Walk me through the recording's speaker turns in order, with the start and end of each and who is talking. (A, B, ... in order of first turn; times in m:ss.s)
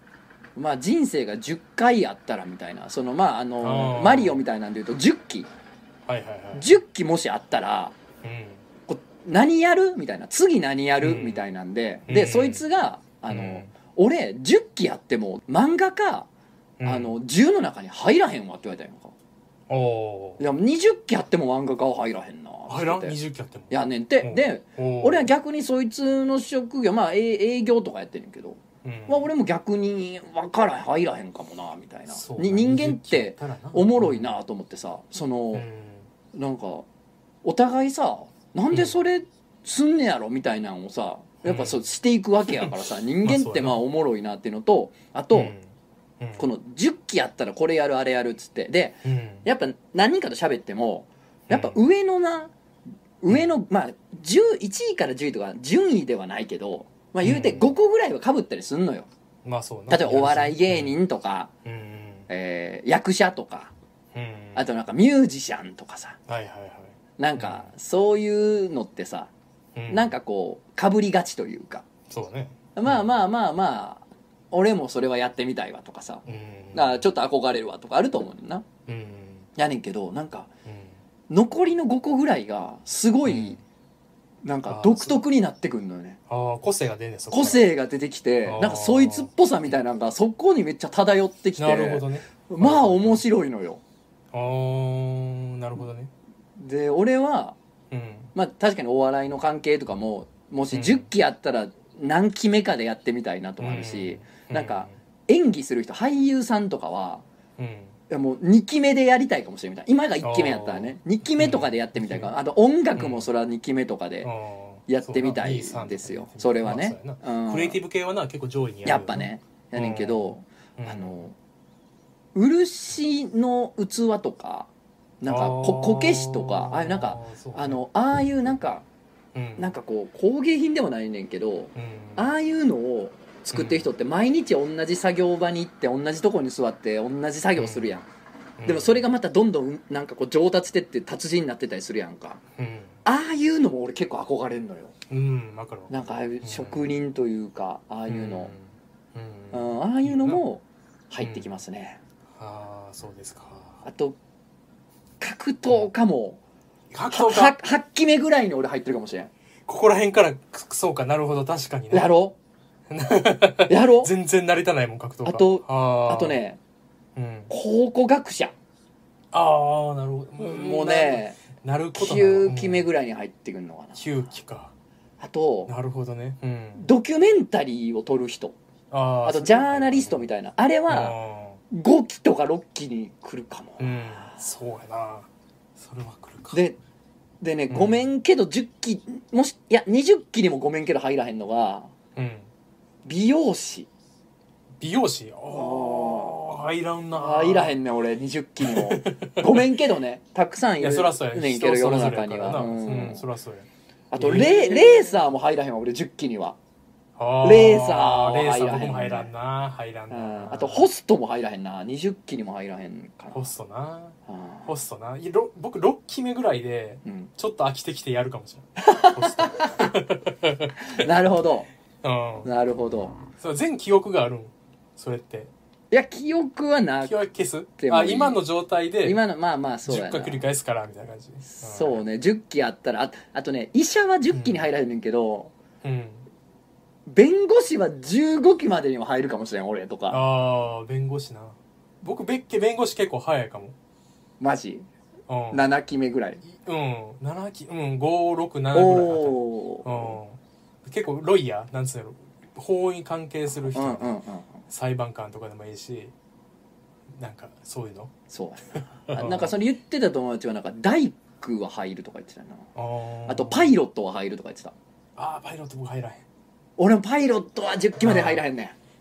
0:00.6-0:05.5 A
0:03.6-0:04.4 B
0:06.1-0:06.8 B
0:06.5-0:08.0 A
0:08.2-0:08.6 B
0:08.9-0:16.3 A
0:11.0-0:11.5 B
0:12.1-0:12.6 B
0:13.3-0:13.7 B
0:16.8-0:17.2 B
0:16.8-0:19.1 A
0:19.7-0:20.4 B
0:20.4-0:23.2 A
0:22.7-0:25.3 B
0:23.7-0:35.7 A
0:28.8-0:29.3 B
0:32.1-0:34.3 B
0:35.5-0:36.1 B
0:36.3-0:36.9 A
0:37.4-0:45.5 A
0:38.7-0:39.0 B
0:41.4-0:41.9 B
0:42.5-0:43.8 B
0:45.3-0:45.7 B
0:46.2-0:46.5 B
0:46.4-0:52.5 A
0:49.0-0:49.5 B
0:51.5-0:51.8 B
0:53.2-0:59.1 A
0:57.2-0:57.7 B
0:59.4-1:01.0 B
0:59.9-1:01.5 A
1:01.6-1:02.3 B
1:02.3-1:03.7 A
1:04.1-1:04.7 B
1:04.6-1:06.2 A
1:06.3-1:07.7 B
1:07.2-1:09.3 A
1:09.8-1:10.2 B
1:09.9-1:11.9 A
1:12.1-1:13.1 B
1:12.8-1:18.7 A
1:16.3-1:17.1 B
1:18.9-1:19.5 B
1:19.6-1:20.5 A
1:20.7-1:21.0 B
1:21.3-1:23.6 A
1:23.3-1:23.6 B
1:24.4-1:26.2 A
1:24.7-1:25.2 B
1:26.3-1:27.6 B
1:27.3-1:33.8 A
1:28.4-1:29.3 B
1:31.6-1:33.2 B
1:34.3-1:36.1 B
1:36.6-1:37.6 A
1:37.9-1:38.3 B
1:38.3-1:47.2 A
1:40.7-1:41.1 B
1:43.6-1:45.0 B
1:47.6-1:48.0 B
1:48.1-1:54.3 A
1:50.2-1:52.3 B
1:53.0-1:53.3 B
1:54.2-2:01.2 B
1:54.9-1:57.8 A
1:58.8-2:01.4 A
2:02.4-2:04.7 A
2:05.2-2:08.9 A
2:05.2-2:07.8 B
2:09.3-2:09.7 B
2:09.6-2:18.0 A
2:11.8-2:12.3 B
2:13.5-2:13.9 B
2:17.6-2:18.0 B
2:18.6-2:19.0 B
2:18.6-2:22.4 A
2:22.6-2:22.9 B
2:23.0-2:24.9 A
2:25.1-2:26.9 B
2:25.9-2:28.5 A
2:28.1-2:30.4 B
2:29.5-2:32.0 A
2:31.2-2:31.5 B
2:32.3-2:33.8 B
2:33.8-2:34.2 A
2:35.2-2:36.4 A
2:36.9-2:37.6 B
2:37.1-2:39.3 A
2:39.7-2:42.1 B
2:41.9-2:42.4 A
2:42.9-2:46.4 B
2:43.7-2:44.1 A
2:45.2-2:46.6 A
2:47.2-2:47.5 B
2:47.5-2:48.5 A
2:49.3-2:52.9 B
2:50.4-2:51.4 A
2:51.9-2:54.2 A
2:54.0-2:54.7 B
2:55.2-2:55.7 A
2:55.7-2:56.9 B
2:56.8-2:58.6 A
2:58.9-3:00.3 B
2:59.2-3:01.2 A
3:00.9-3:01.6 B
3:01.7-3:04.4 A
3:03.8-3:06.6 B
3:06.5-3:06.8 A
3:07.4-3:11.9 A
3:07.7-3:08.1 B
3:12.2-3:12.5 B
3:13.0-3:13.9 A
3:14.8-3:17.8 B
3:15.5-3:16.4 A
3:17.1-3:23.3 A
3:18.6-3:19.7 B
3:20.8-3:25.2 B
3:24.1-3:26.6 A
3:27.2-3:30.9 B
3:27.4-3:29.3 A
3:30.1-3:33.5 A
3:33.3-3:41.1 B
3:34.3-3:34.7 A
3:37.0-3:37.3 A
3:38.8-3:40.0 A
3:40.8-3:41.7 A
3:42.0-3:42.5 B
3:42.4-3:43.2 A
3:43.4-3:45.5 B
3:45.9-3:47.2 A
3:47.0-3:49.2 B
3:47.8-3:48.4 A
3:49.0-3:50.4 A
3:49.9-3:52.0 B
3:51.5-3:55.5 A
3:54.3-3:54.7 B
3:55.8-3:56.3 B
3:57.1-4:00.2 A
4:00.1-4:03.8 B
4:04.4-4:04.9 A
4:05.3-4:05.6 B
4:05.5-4:06.4 A
4:06.4-4:14.2 B
4:08.7-4:10.2 A
4:13.7-4:14.6 A
4:14.7-4:16.1 B
4:17.1-4:18.1 B
4:18.3-4:22.7 A
4:18.8-4:19.5 B
4:22.8-4:23.7 B
4:23.3-4:24.8 A
4:25.2-4:26.2 B
4:26.8-4:28.8 A
4:28.0-4:28.4 B